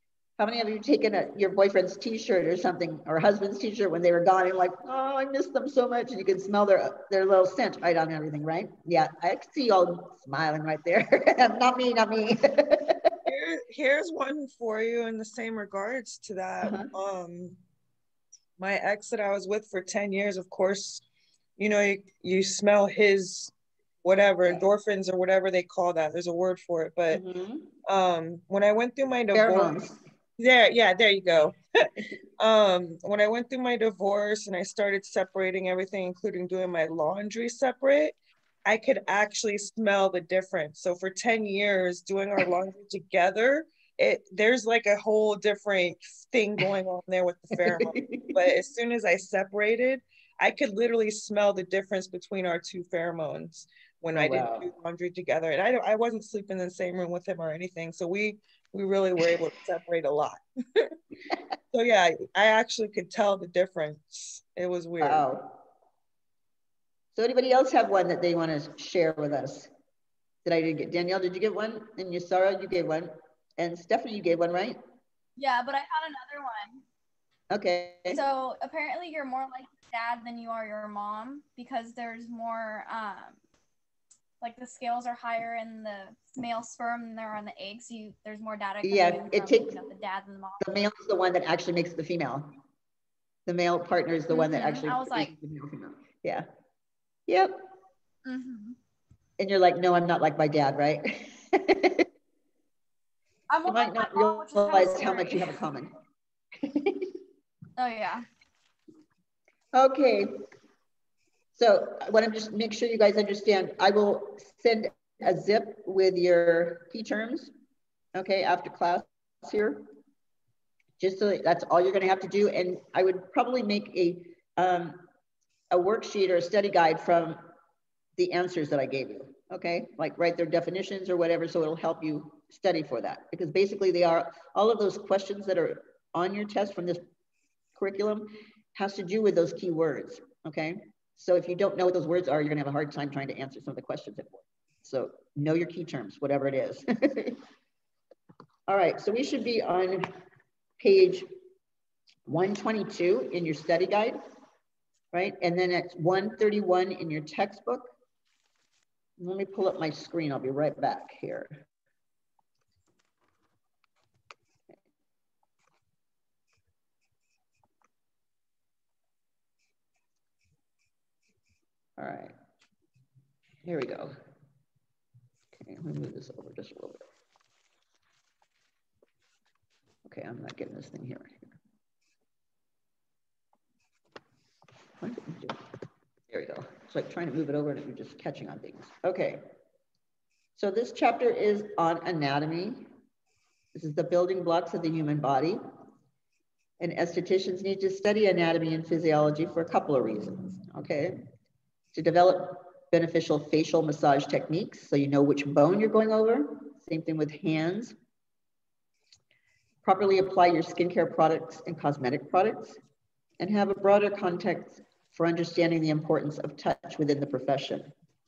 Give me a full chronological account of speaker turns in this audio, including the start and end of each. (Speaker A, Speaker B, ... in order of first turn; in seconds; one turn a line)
Speaker A: 0.4-13.2
Speaker B: 13.2-17.6
Speaker A: 16.6-16.9
Speaker B: 18.6-21.0
Speaker B: 21.6-23.5
Speaker B: 24.0-27.2
Speaker A: 27.1-27.7
Speaker B: 27.9-29.8
Speaker A: 29.3-30.0
Speaker B: 30.4-31.6
Speaker B: 32.4-38.1
Speaker B: 38.6-60.8
Speaker A: 47.5-48.4
Speaker A: 54.1-54.7
Speaker B: 61.7-65.3
Speaker A: 65.0-65.5
Speaker A: 67.1-69.7
Speaker A: 70.4-74.8
Speaker C: 75.4-76.8
Speaker A: 77.5-78.2
Speaker C: 78.1-83.4
Speaker C: 84.4-90.7
Speaker A: 88.8-89.7
Speaker A: 90.6-92.5
Speaker A: 93.5-96.5
Speaker C: 94.3-95.3
Speaker A: 97.3-97.6
Speaker C: 98.2-98.8
Speaker A: 99.4-102.0
Speaker C: 103.5-105.5
Speaker A: 103.7-105.9
Speaker A: 106.6-107.1
Speaker C: 107.8-108.2
Speaker A: 109.7-110.3
Speaker A: 111.5-117.5
Speaker A: 118.1-119.9
Speaker A: 121.0-125.0
Speaker A: 125.7-127.4
Speaker A: 128.2-137.0
Speaker A: 137.8-147.4
Speaker A: 148.7-150.1
Speaker A: 150.8-151.3
Speaker A: 152.3-154.2
Speaker A: 155.1-157.9
Speaker A: 159.2-161.6
Speaker A: 172.0-172.3
Speaker A: 173.6-174.1
Speaker A: 175.5-177.1
Speaker A: 180.1-181.5
Speaker A: 185.0-185.6
Speaker A: 186.3-189.4
Speaker A: 190.6-192.9
Speaker A: 193.7-195.6
Speaker A: 196.8-201.2
Speaker A: 201.9-207.9
Speaker A: 209.8-212.8
Speaker A: 213.4-217.9